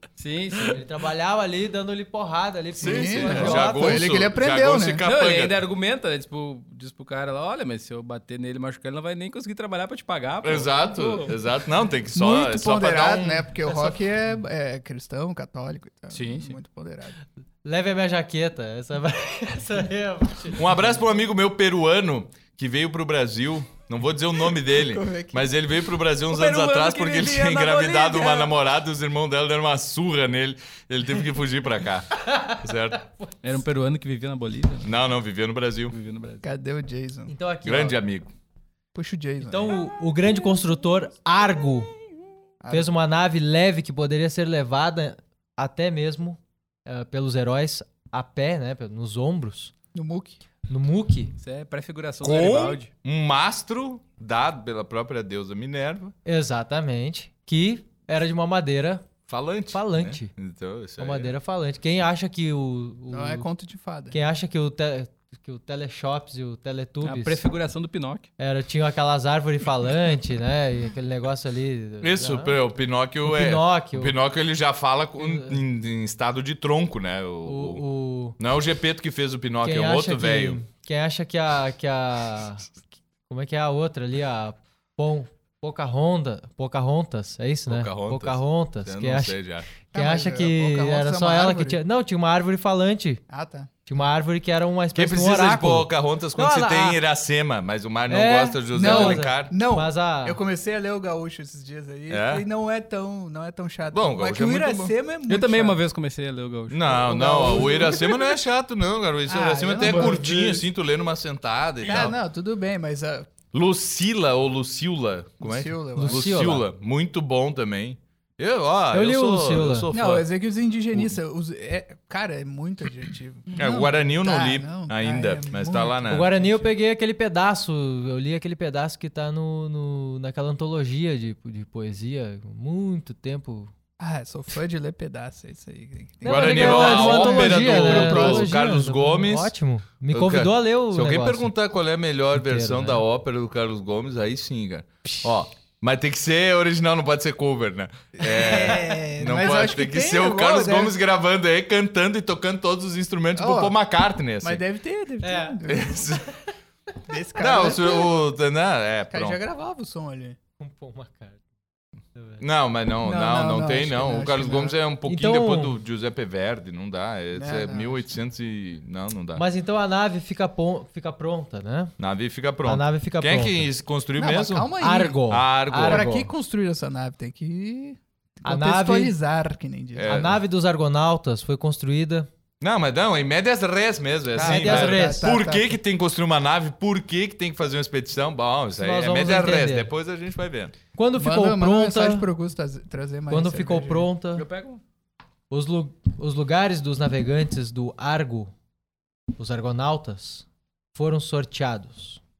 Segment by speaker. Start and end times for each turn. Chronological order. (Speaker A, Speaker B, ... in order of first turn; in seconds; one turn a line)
Speaker A: 0.2-0.8
Speaker B: 0.7-4.1
Speaker C: 2.8-5.0
Speaker D: 2.8-5.6
Speaker A: 5.0-11.3
Speaker D: 10.4-13.4
Speaker C: 12.1-17.2
Speaker B: 13.7-13.9
Speaker A: 16.1-16.6
Speaker B: 17.6-21.1
Speaker D: 20.5-33.0
Speaker C: 24.6-25.5
Speaker A: 26.3-28.5
Speaker B: 32.2-32.6
Speaker A: 33.4-34.9
Speaker D: 34.8-35.9
Speaker A: 35.9-36.5
Speaker C: 36.4-37.3
Speaker B: 37.3-38.0
Speaker D: 37.6-38.3
Speaker C: 38.9-39.8
Speaker B: 39.4-41.9
Speaker C: 42.6-42.9
Speaker B: 42.7-49.7
Speaker C: 49.9-50.4
Speaker B: 50.7-51.3
Speaker A: 51.4-52.9
Speaker D: 52.2-56.1
Speaker B: 56.2-59.1
Speaker D: 59.3-61.3
Speaker B: 59.7-60.3
Speaker B: 61.0-63.5
Speaker C: 63.1-64.2
Speaker B: 64.1-67.4
Speaker A: 67.0-68.3
Speaker B: 68.4-72.5
Speaker D: 72.0-77.8
Speaker B: 73.2-74.1
Speaker B: 75.2-75.6
Speaker B: 77.5-78.4
Speaker D: 78.4-80.6
Speaker B: 79.6-82.7
Speaker B: 83.3-89.4
Speaker D: 87.7-89.7
Speaker B: 89.9-93.2
Speaker C: 89.9-91.8
Speaker C: 93.3-93.7
Speaker B: 93.8-97.0
Speaker D: 94.9-99.5
Speaker B: 98.1-100.4
Speaker C: 98.7-105.8
Speaker D: 102.1-102.4
Speaker D: 103.9-104.9
Speaker A: 105.3-107.8
Speaker D: 106.7-112.1
Speaker C: 106.9-108.2
Speaker C: 109.3-110.7
Speaker A: 109.8-110.3
Speaker C: 111.8-113.3
Speaker D: 113.5-120.3
Speaker C: 115.4-116.3
Speaker B: 116.0-116.7
Speaker B: 118.9-119.9
Speaker C: 119.9-126.7
Speaker D: 123.5-126.3
Speaker B: 126.1-133.7
Speaker C: 134.0-138.5
Speaker B: 136.2-141.5
Speaker D: 136.2-139.5
Speaker D: 140.1-154.6
Speaker B: 142.3-143.0
Speaker C: 148.2-151.0
Speaker C: 153.3-153.8
Speaker C: 154.4-156.1
Speaker B: 155.2-155.6
Speaker D: 155.6-156.3
Speaker C: 157.1-158.3
Speaker D: 157.4-159.4
Speaker C: 159.1-160.4
Speaker B: 160.6-161.4
Speaker B: 162.1-162.4
Speaker D: 162.4-169.4
Speaker C: 163.0-164.8
Speaker B: 165.1-165.8
Speaker C: 167.3-168.1
Speaker B: 169.3-171.9
Speaker D: 172.0-174.7
Speaker B: 172.6-173.7
Speaker C: 174.2-175.2
Speaker B: 174.8-176.3
Speaker D: 175.3-176.1
Speaker C: 175.8-180.2
Speaker B: 178.4-179.1
Speaker D: 179.9-180.4
Speaker B: 180.1-182.3
Speaker D: 182.6-190.7
Speaker C: 184.3-185.8
Speaker B: 184.4-185.3
Speaker B: 188.8-189.9
Speaker B: 190.9-192.3
Speaker C: 191.2-194.1
Speaker B: 193.3-194.4
Speaker A: 194.3-194.8
Speaker B: 195.5-198.5
Speaker B: 199.3-202.2